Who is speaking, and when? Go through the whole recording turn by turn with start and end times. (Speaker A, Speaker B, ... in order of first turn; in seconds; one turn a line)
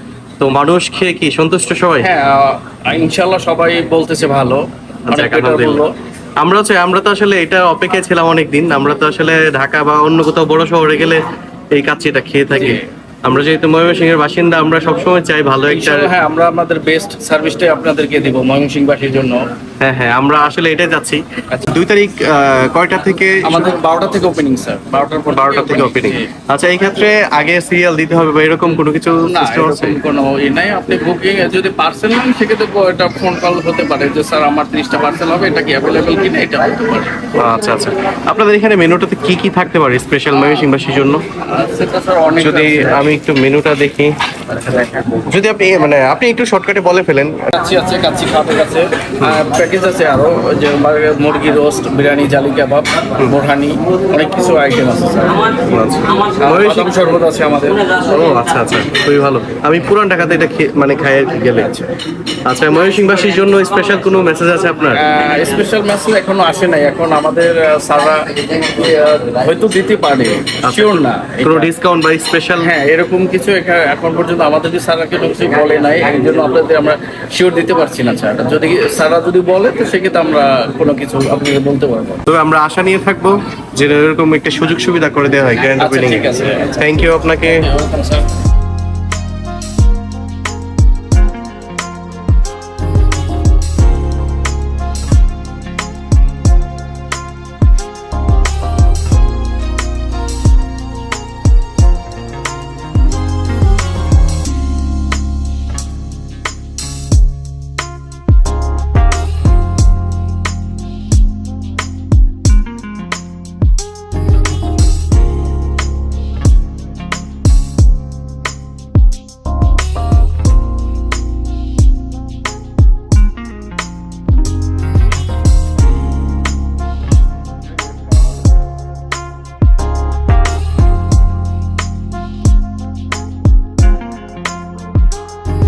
Speaker A: 0.4-2.1
Speaker B: 2.0-5.9
Speaker A: 5.1-5.8
Speaker A: 6.4-16.1
Speaker B: 12.5-12.8
Speaker B: 15.7-19.4
Speaker A: 19.8-23.7
Speaker B: 23.4-26.3
Speaker A: 25.3-30.0
Speaker B: 29.3-37.1
Speaker A: 37.4-41.2
Speaker B: 41.5-43.1
Speaker A: 42.4-47.5
Speaker B: 47.5-55.6
Speaker A: 55.7-56.9
Speaker B: 56.4-58.0
Speaker A: 57.9-61.7
Speaker B: 61.6-61.9
Speaker A: 62.5-65.0
Speaker B: 64.9-71.7
Speaker A: 70.7-72.7
Speaker B: 72.6-82.2
Speaker A: 82.3-87.7
Speaker B: 85.8-88.3